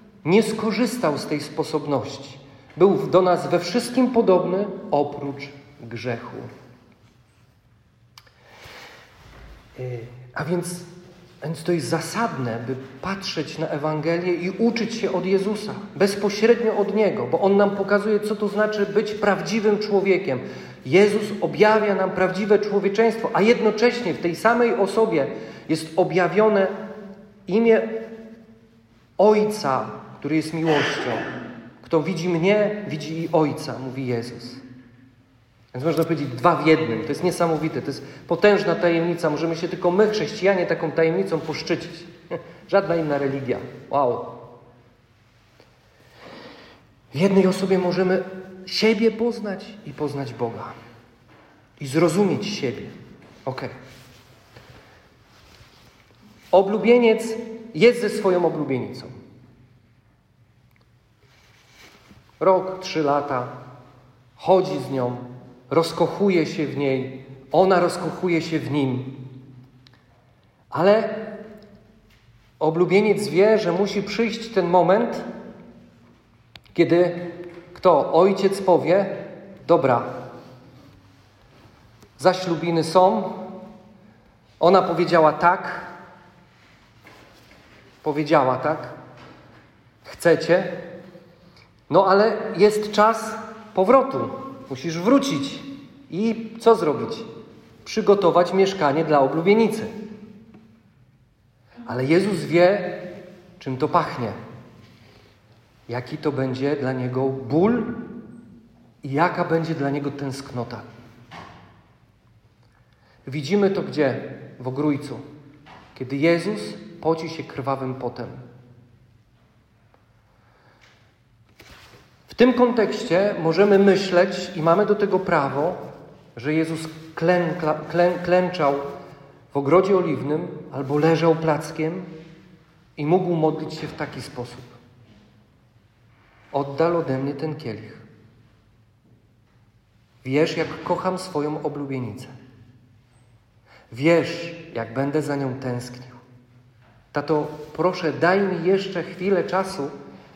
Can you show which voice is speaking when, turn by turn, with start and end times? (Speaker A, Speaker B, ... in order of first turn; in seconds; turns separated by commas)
Speaker A: 0.2-6.5, Speaker A: 9.8-10.9, Speaker A: 11.4-26.8, Speaker A: 27.5-28.1, Speaker A: 29.2-31.2, Speaker A: 31.8-34.6, Speaker A: 35.7-42.1, Speaker A: 42.7-44.5, Speaker A: 47.1-50.7, Speaker A: 51.8-53.0, Speaker A: 53.5-53.7, Speaker A: 56.5-59.1, Speaker A: 62.4-63.6, Speaker A: 64.4-69.3, Speaker A: 70.7-71.4, Speaker A: 72.6-75.2, Speaker A: 76.7-80.3, Speaker A: 82.2-83.5, Speaker A: 84.6-85.9, Speaker A: 88.0-89.0, Speaker A: 90.0-90.8, Speaker A: 91.9-97.3, Speaker A: 97.8-99.9, Speaker A: 101.9-104.4, Speaker A: 105.9-108.0, Speaker A: 109.0-110.8, Speaker A: 113.3-115.2, Speaker A: 116.0-118.4, Speaker A: 122.3-125.8, Speaker A: 126.4-128.9, Speaker A: 129.5-132.1, Speaker A: 133.0-134.8, Speaker A: 136.5-138.1, Speaker A: 140.2-142.3, Speaker A: 143.9-146.2, Speaker A: 147.1-149.9